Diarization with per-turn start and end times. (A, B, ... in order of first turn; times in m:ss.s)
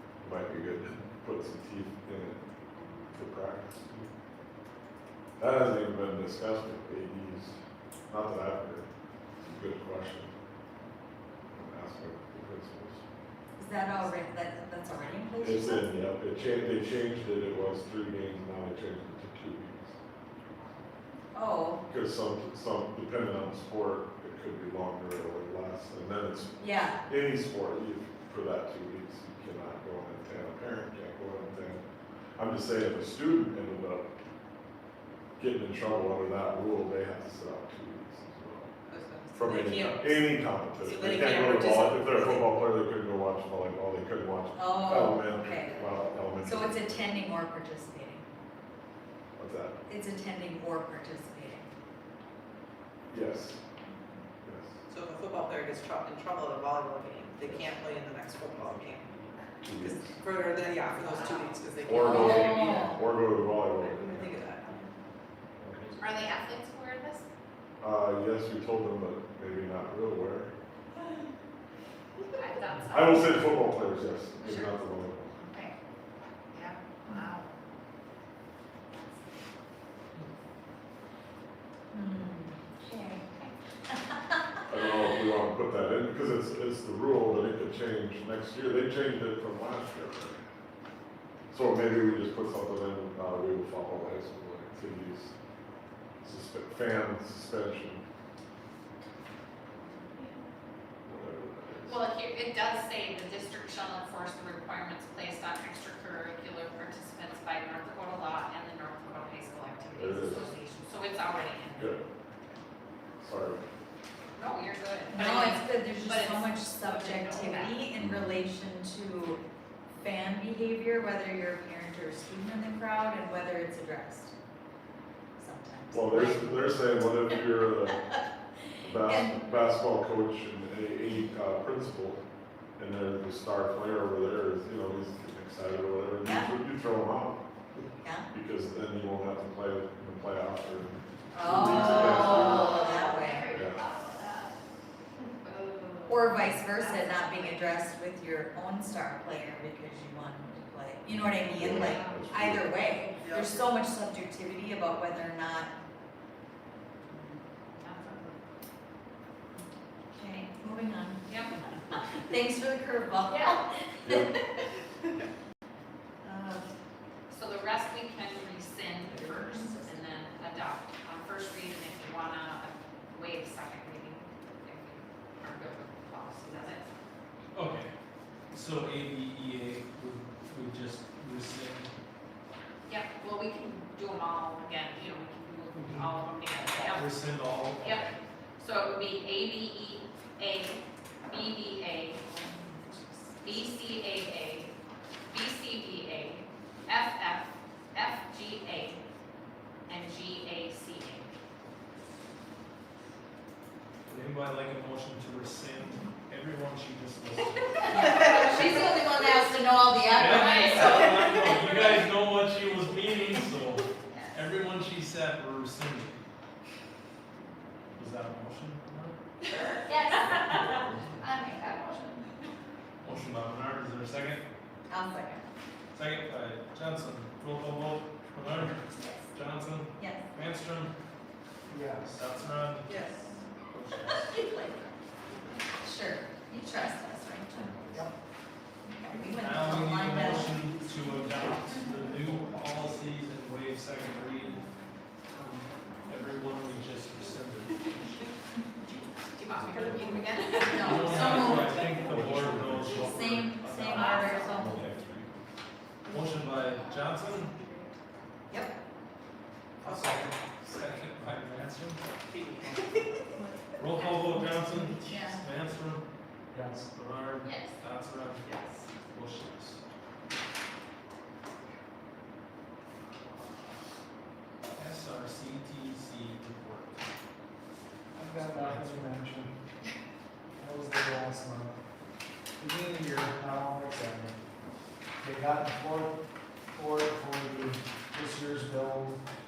0:00.2-0:02.5 A
0:03.1-0:04.0 A
0:05.4-0:08.9 A
0:09.4-0:10.4 A
0:11.5-0:13.0 A
0:13.6-0:15.9 B
0:15.4-0:19.9 A
0:21.3-0:21.8 B
0:21.9-0:31.8 A
0:26.6-0:27.0 B
0:32.4-0:34.1 A
0:35.4-0:38.7 A
0:38.9-0:42.4 C
0:39.3-0:47.0 A
0:44.5-0:48.2 B
0:49.4-0:49.8 A
0:49.9-0:51.7 B
0:53.1-0:53.6 A
0:54.4-0:54.8 A
0:54.9-1:02.8 C
0:57.4-0:57.7 A
0:59.6-1:00.2 A
1:00.9-1:02.8 D
1:01.8-1:04.4 A
1:01.9-1:03.0 B
1:03.7-1:04.9 C
1:05.6-1:06.1 A
1:06.0-1:07.2 D
1:07.8-1:10.5 A
1:12.4-1:13.6 D
1:12.8-1:15.4 A
1:14.4-1:14.8 D
1:15.4-1:15.7 D
1:16.5-1:17.6 D
1:21.9-1:24.6 B
1:24.7-1:30.4 A
1:31.5-1:35.3 A
1:36.2-1:38.0 A
1:41.0-1:42.0 A
1:41.8-1:52.0 D
1:49.9-1:50.5 A
1:51.8-1:52.0 A
1:53.2-1:53.6 A
1:54.3-1:57.9 D
1:55.1-1:59.4 B
1:58.0-1:58.3 A
2:00.0-2:04.3 B
2:05.4-2:06.7 B
2:05.9-2:08.0 A
2:08.8-2:12.2 A
2:09.0-2:09.4 B
2:12.8-2:17.8 A
2:16.2-2:16.5 B
2:18.0-2:18.3 B
2:18.3-2:22.8 A
2:21.3-2:23.6 B
2:21.6-2:24.5 D
2:23.5-2:23.8 A
2:25.4-2:27.7 D
2:26.0-2:35.7 B
2:31.3-2:32.8 A
2:31.6-2:32.5 D
2:33.2-2:33.6 C
2:37.1-2:38.4 D
2:40.1-2:44.4 B
2:41.2-2:41.6 D
2:44.0-2:44.3 A
2:46.2-2:46.6 B
2:47.3-2:56.9 D
2:49.0-2:50.3 B
2:57.5-2:57.9 E
2:58.5-3:01.9 E
3:02.9-3:08.1 D
3:05.7-3:06.1 E
3:06.7-3:08.1 E
3:08.6-3:12.2 D
3:12.2-3:13.6 B
3:13.4-3:14.7 D
3:15.3-3:19.0 D
3:19.9-3:21.3 D
3:24.1-3:28.9 E
3:27.8-3:31.8 B
3:28.1-3:28.7 C
3:30.1-3:36.1 E
3:30.1-3:31.5 D
3:37.9-3:39.2 E
3:39.8-3:42.5 D
3:40.4-3:41.1 A
3:43.0-3:44.4 E
3:44.9-3:45.4 B
3:45.9-3:50.9 E
3:50.0-3:50.2 B
3:51.7-3:52.2 F
3:52.1-3:53.0 E
3:52.8-3:53.3 C
3:53.6-3:54.4 E
3:54.4-3:54.6 D
3:55.8-3:58.1 B
3:58.8-4:00.6 B
3:59.1-4:04.7 E
4:05.3-4:08.3 E
4:09.4-4:11.8 D
4:10.6-4:12.2 B
4:10.7-4:15.4 E
4:12.0-4:13.0 A
4:12.7-4:14.9 B
4:13.9-4:14.7 D
4:16.0-4:17.6 E
4:16.4-4:17.9 D
4:19.8-4:22.0 E
4:19.8-4:20.3 F
4:22.3-4:23.2 C
4:23.8-4:26.0 E
4:25.0-4:25.4 B
4:26.5-4:26.9 F
4:26.9-4:29.8 E
4:27.4-4:27.8 D
4:28.4-4:28.8 C
4:34.7-4:37.0 E
4:38.1-4:39.5 F
4:38.4-4:39.1 E
4:40.6-4:41.7 F
4:42.6-4:44.3 F
4:45.2-4:46.1 F
4:46.7-4:49.2 F